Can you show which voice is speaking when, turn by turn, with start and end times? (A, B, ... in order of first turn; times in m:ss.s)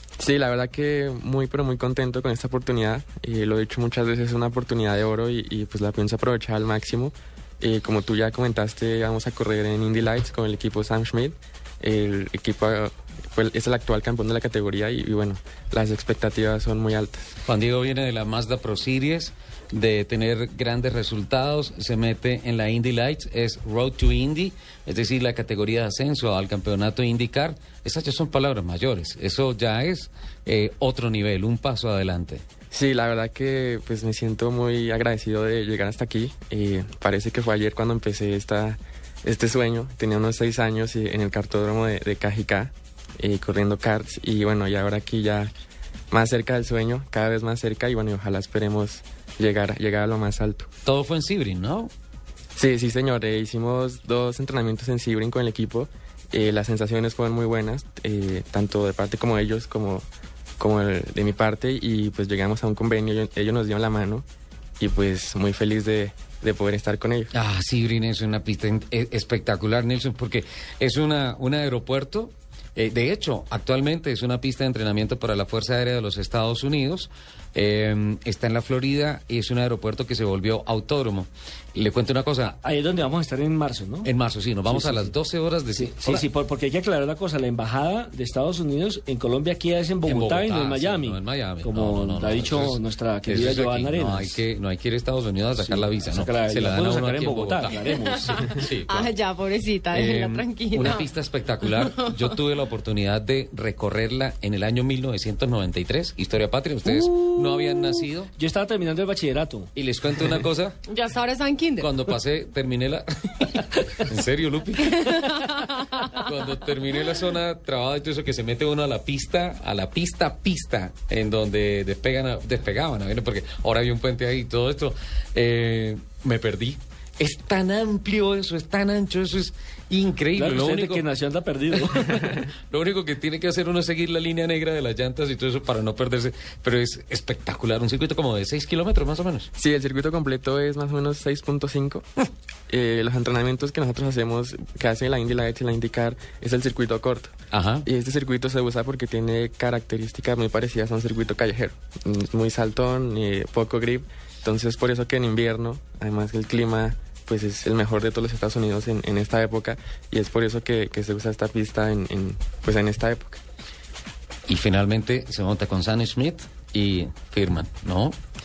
0:00.2-0:17.3 A
0:17.4-0:32.4 B
0:32.7-0:45.5 A
0:46.1-0:50.7 A
0:50.8-0:51.9 B
0:52.6-1:00.1 A
1:00.6-1:04.2 A
1:04.8-1:07.3 A
1:07.3-1:22.6 B
1:22.6-1:24.1 C
1:24.0-1:26.3 B
1:24.7-1:25.1 C
1:25.8-1:34.4 C
1:30.0-1:39.2 B
1:35.6-1:38.5 C
1:38.0-1:41.1 D
1:39.9-1:48.3 B
1:41.7-1:42.2 D
1:46.9-1:49.7 C
1:49.8-1:50.8 B
1:50.9-1:51.9 D
1:51.8-2:11.0 B
1:54.9-1:56.0 D
2:10.4-2:12.4 C
2:12.0-2:19.5 B
2:19.6-2:22.0 A
2:22.7-2:27.3 A
2:27.5-2:27.9 B
2:27.9-2:43.4 A
2:44.5-2:48.2 B